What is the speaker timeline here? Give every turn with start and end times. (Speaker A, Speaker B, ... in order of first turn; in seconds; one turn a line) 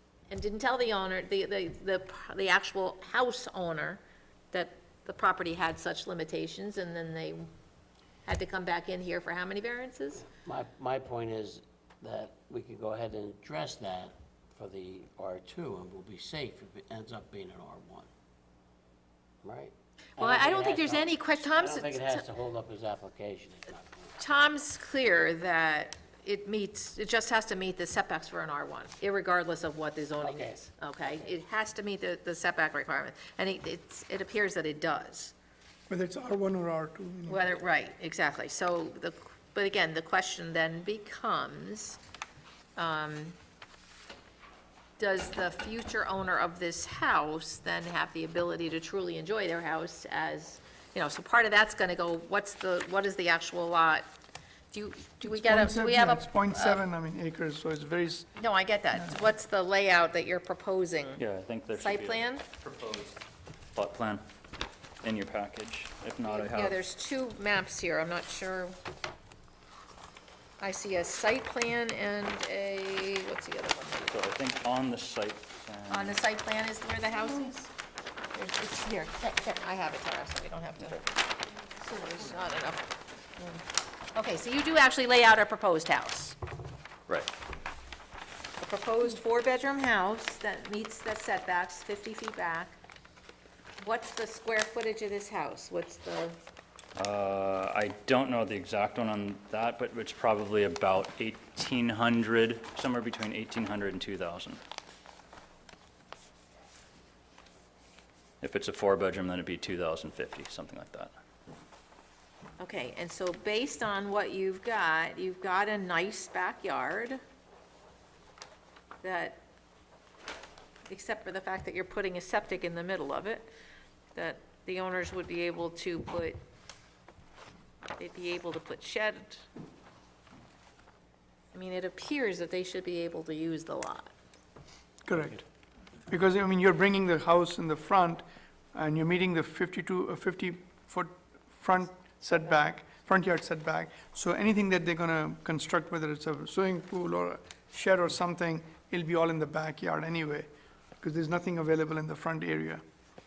Speaker A: 0.3-4.0
Speaker A: 4.5-7.5
Speaker A: 8.3-10.3
Speaker B: 10.2-18.1
Speaker B: 19.4-24.2
Speaker A: 20.2-22.3
Speaker A: 24.2-35.3
Speaker B: 30.2-30.6
Speaker C: 35.9-37.4
Speaker A: 37.3-42.0
Speaker A: 42.8-43.4
Speaker A: 45.0-54.1
Speaker A: 54.7-56.8
Speaker C: 55.2-58.4
Speaker A: 58.4-61.2
Speaker D: 61.2-63.2
Speaker A: 61.7-62.4
Speaker D: 63.8-64.2
Speaker D: 65.0-66.8
Speaker A: 66.2-68.8
Speaker A: 70.6-74.3
Speaker D: 74.1-76.2
Speaker A: 75.9-77.7
Speaker A: 78.3-81.0
Speaker A: 81.8-82.9
Speaker A: 84.2-86.4
Speaker A: 88.6-92.8
Speaker A: 93.8-96.4
Speaker D: 97.0-104.6
Speaker D: 108.4-111.1
Speaker A: 112.6-117.2
Speaker A: 119.0-119.4
Speaker A: 120.9-123.5
Speaker A: 124.2-126.4
Speaker A: 128.0-129.4
Speaker A: 131.5-134.1
Speaker C: 135.1-135.4
Speaker C: 136.1-150.5
Speaker C: 151.0-152.8